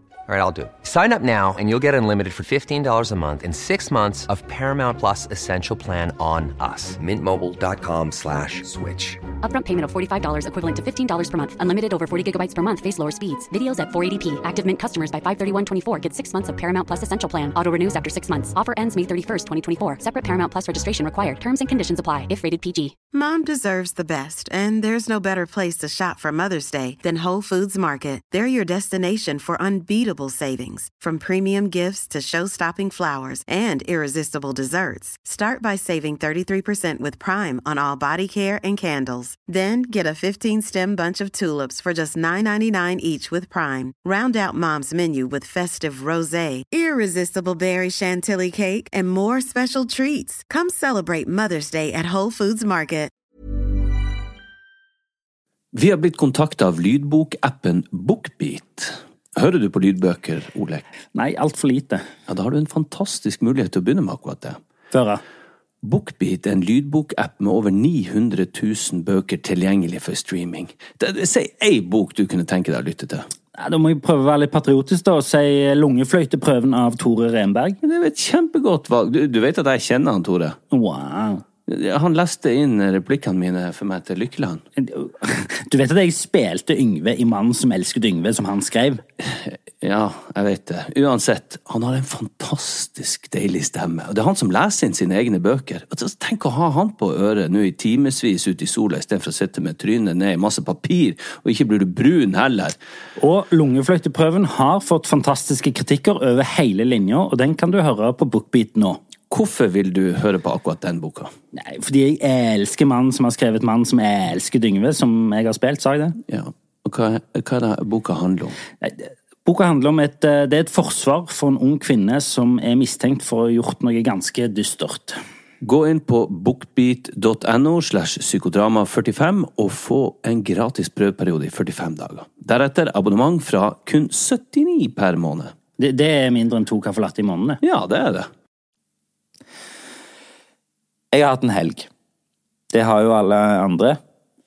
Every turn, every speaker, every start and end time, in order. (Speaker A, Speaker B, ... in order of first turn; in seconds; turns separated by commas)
Speaker A: 0.3-9.2, Speaker B: 9.4-22.9, Speaker C: 23.1-53.1, Speaker D: 55.7-60.8, Speaker E: 61.1-62.0, Speaker D: 62.3-64.6, Speaker E: 64.9-65.2, Speaker D: 65.8-73.3, Speaker E: 73.5-77.8, Speaker D: 77.8-80.6, Speaker E: 80.7-81.4, Speaker D: 81.7-84.6, Speaker E: 84.8-89.0, Speaker D: 89.2-102.8, Speaker E: 103.2-109.0, Speaker D: 109.3-111.3, Speaker E: 111.5-116.2, Speaker D: 116.2-118.6, Speaker E: 118.8-125.2, Speaker D: 125.6-135.5, Speaker E: 135.8-137.6, Speaker D: 137.6-138.3, Speaker E: 141.1-141.9, Speaker E: 142.7-144.0